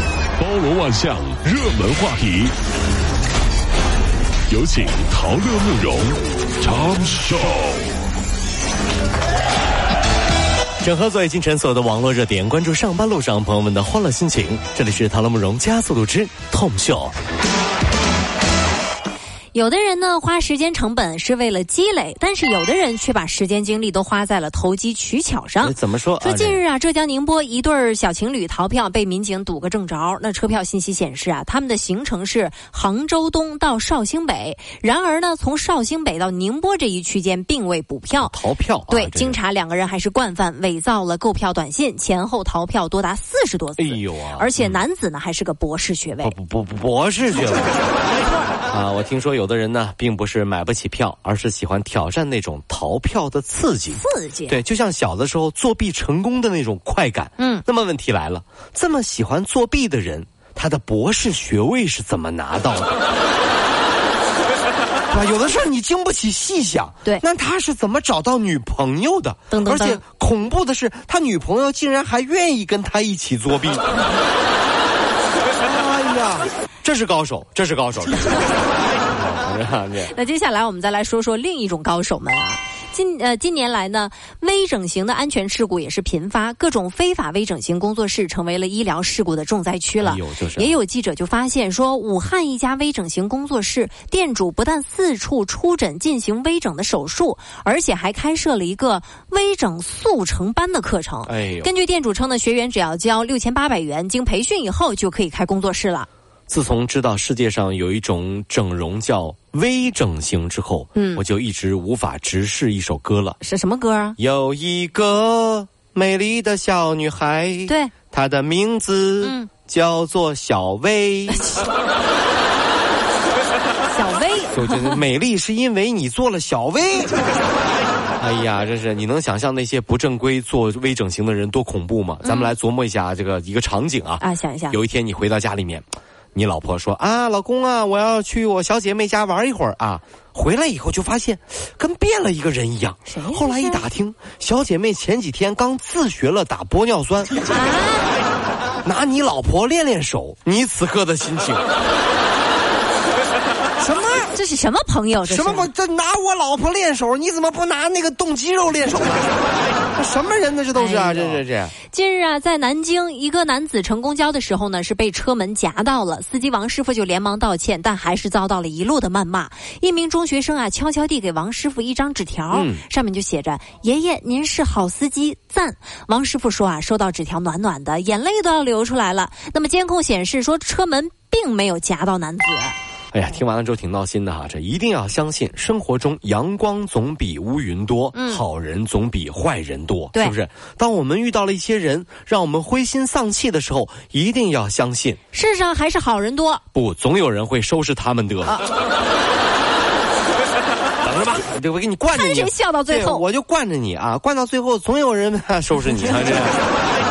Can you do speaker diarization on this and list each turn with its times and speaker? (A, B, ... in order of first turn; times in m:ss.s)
0:00.4-0:02.6 A
0:04.5-0:07.9 A
0:10.8-0:17.2 B
0:19.5-0:38.4 C
0:25.6-0:26.6 B
0:38.2-0:39.4 B
0:38.9-0:46.4 C
0:43.8-0:44.8 B
0:46.2-0:47.7 B
0:48.2-0:48.5 C
0:48.7-1:03.0 B
0:53.9-0:54.6 C
0:57.4-0:57.6 C
1:05.1-1:13.8 B
1:09.5-1:10.0 C
1:15.6-1:18.5 B
1:19.0-1:20.1 B
1:20.1-1:46.1 C
1:30.0-1:30.8 B
1:41.3-1:41.7 B
1:46.5-1:53.4 B
1:51.0-1:51.2 C
1:53.4-1:54.2 C
1:54.2-2:01.5 B
1:57.7-1:57.9 C
1:59.2-1:59.5 C
2:03.9-2:05.0 C
2:04.5-2:07.1 B
2:08.2-2:27.3 B
2:12.2-2:12.5 C
2:14.2-2:14.8 C
2:23.1-2:23.8 C
2:27.4-2:28.1 C
2:28.8-2:31.6 B
2:33.8-2:34.3 B
2:34.3-2:35.7 C
2:35.2-2:39.3 B
2:40.0-2:41.8 B
2:40.7-3:02.8 C
2:52.5-2:52.8 B
3:03.1-3:15.2 B
3:08.1-3:08.4 C
3:15.3-3:16.6 C
3:16.7-3:18.6 B
3:21.0-3:26.6 B
3:22.1-3:23.3 C